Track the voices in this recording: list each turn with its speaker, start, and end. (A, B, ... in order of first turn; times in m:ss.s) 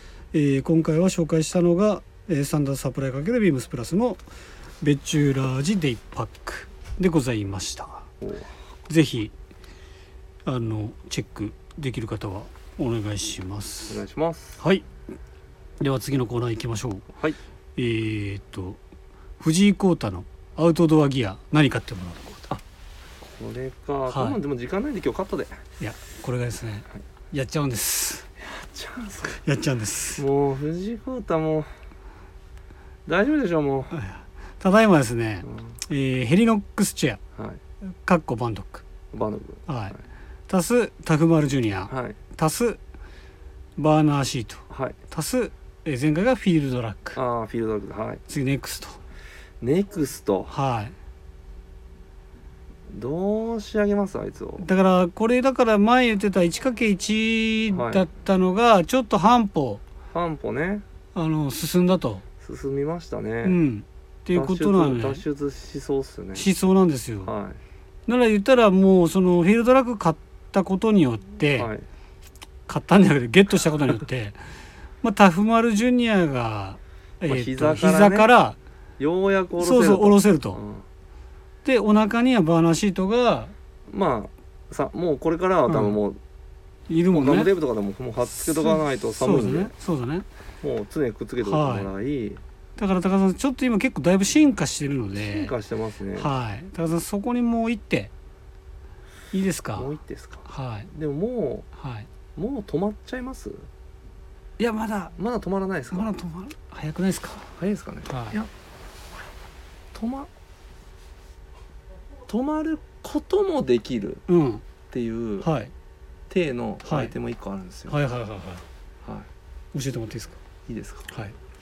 0:00.3-0:04.2 A
0:04.8-0:08.1 A
0:08.2-0:08.5 B
0:08.9-0:09.3 A
0:10.5-0:14.0 A
0:13.9-0:14.6 B
0:14.6-0:14.9 A
0:15.8-0:17.1 A
0:17.8-0:18.8 A
0:19.4-0:22.4 A
0:23.2-0:25.6 B
0:24.1-0:24.4 A
0:25.8-0:28.3 A
0:28.4-0:29.4 B
0:29.4-0:30.2 A
0:30.2-0:31.7 B
0:33.1-0:34.0 B
0:33.9-0:37.2 A
0:37.4-0:37.6 B
0:38.0-0:38.8 A
0:39.1-0:40.0 B
0:39.7-0:40.0 A
0:40.5-0:42.8 A
0:41.9-0:42.2 B
0:43.8-0:47.2 A
0:44.7-0:45.0 B
0:47.2-0:48.2 B
0:48.3-0:49.0 A
0:49.6-0:50.5 B
0:50.5-0:50.9 A
0:52.9-0:54.7 B
0:54.6-0:59.8 A
0:57.7-0:58.1 B
1:00.1-1:00.8 B
1:01.2-1:02.2 A
1:02.4-1:03.6 B
1:03.4-1:05.2 A
1:04.3-1:06.5 B
1:06.4-1:07.3 A
1:07.2-1:07.6 B
1:08.1-1:11.7 A
1:11.6-1:11.9 B
1:12.7-1:14.4 A
1:15.0-1:18.6 A
1:17.2-1:18.3 B
1:19.0-1:20.9 B
1:19.6-1:20.6 A
1:21.6-1:23.5 A
1:23.9-1:26.2 B
1:25.7-1:26.0 A
1:26.9-1:27.5 A
1:27.1-1:29.7 B
1:28.5-1:30.3 A
1:30.6-1:32.4 B
1:31.4-1:31.9 A
1:32.8-1:35.5 A
1:35.2-1:36.3 B
1:36.2-1:38.1 A
1:39.3-1:39.9 A
1:39.8-1:41.7 B
1:40.5-1:40.9 A
1:41.8-1:42.1 A
1:42.4-1:43.7 B
1:44.6-1:45.2 A
1:45.2-1:46.2 B
1:45.9-1:47.5 A
1:47.6-1:48.5 B
1:48.1-1:48.4 A
1:49.9-1:50.3 B
1:52.3-1:54.2 B
1:54.3-1:54.6 A
1:54.9-1:55.5 B
1:55.4-1:55.7 A
1:56.3-1:58.0 B
1:56.8-1:57.1 A
1:57.9-1:58.6 A
1:59.0-1:59.3 B
1:59.7-2:00.4 A
2:00.7-2:01.1 B
2:01.1-2:01.4 A